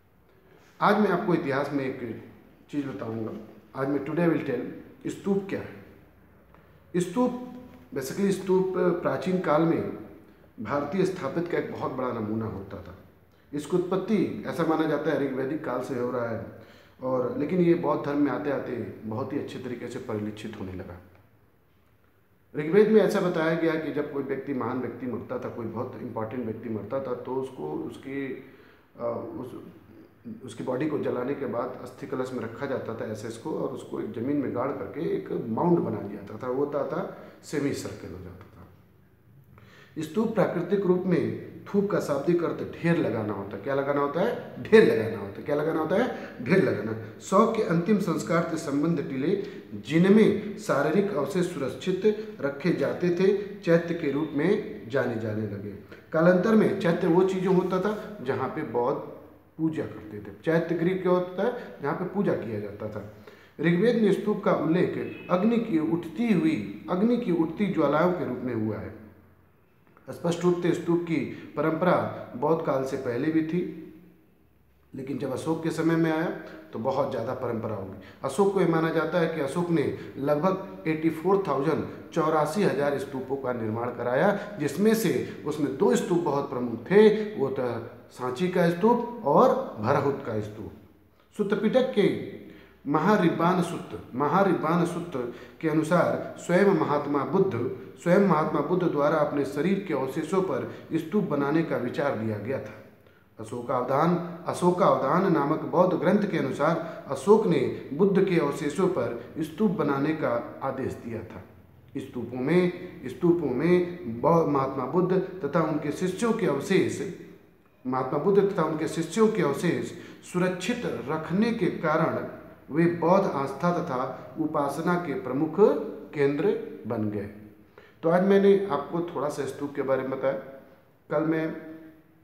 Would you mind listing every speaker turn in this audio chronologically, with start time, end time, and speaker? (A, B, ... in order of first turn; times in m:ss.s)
0:00.8-0:05.8 A
0:06.9-0:09.9 A
0:10.6-0:13.0 A
0:13.5-0:16.5 A
0:17.0-0:21.0 A
0:22.5-0:28.4 A
0:29.0-0:29.7 A
0:30.2-0:38.7 A
0:40.0-1:08.9 A
1:10.1-1:13.7 A
1:14.9-1:30.7 A
1:31.3-1:32.3 A
1:32.9-1:42.8 A
1:43.4-1:57.1 A
1:57.8-2:07.3 A
2:08.0-2:10.4 A
2:11.1-2:11.6 A